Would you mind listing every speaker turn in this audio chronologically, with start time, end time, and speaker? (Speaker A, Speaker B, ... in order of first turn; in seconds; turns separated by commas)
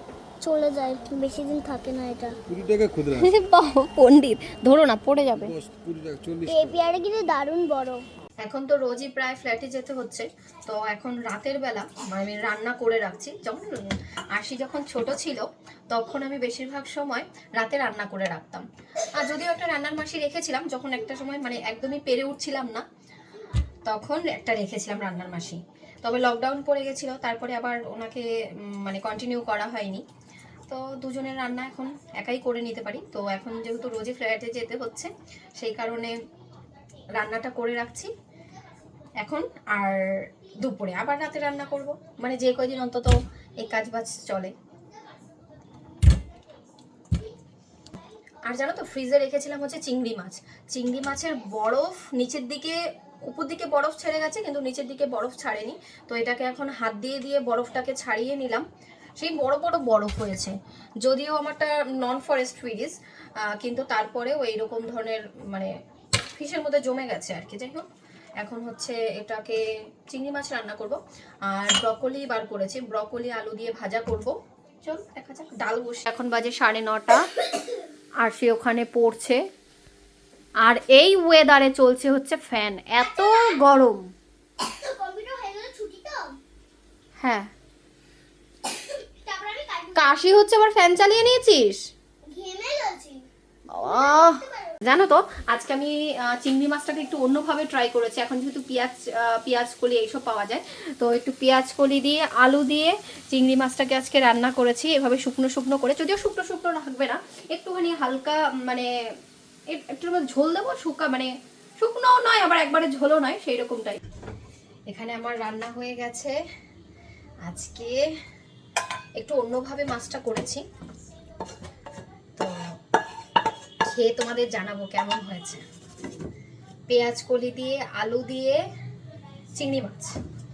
Speaker A: 0.4-2.4, Speaker B: 2.5-3.3, Speaker C: 3.1-5.6, Speaker B: 5.5-6.6, Speaker A: 6.5-8.0, Speaker C: 8.4-22.8, Speaker C: 23.9-30.0, Speaker C: 30.7-36.1, Speaker C: 37.1-38.1, Speaker C: 39.2-44.5, Speaker C: 48.4-58.6, Speaker C: 59.2-65.7, Speaker C: 66.3-67.9, Speaker C: 68.4-74.3, Speaker C: 74.8-77.2, Speaker C: 78.2-79.4, Speaker C: 80.6-84.0, Speaker A: 83.0-83.6, Speaker A: 84.6-86.3, Speaker C: 87.2-87.5, Speaker A: 89.2-90.1, Speaker C: 89.9-91.8, Speaker A: 92.2-93.2, Speaker C: 93.7-108.9, Speaker A: 93.8-94.8, Speaker C: 109.7-114.0, Speaker C: 114.9-116.3, Speaker C: 117.4-118.1, Speaker C: 119.2-120.6, Speaker C: 123.9-125.6, Speaker C: 126.9-128.6, Speaker C: 129.5-130.1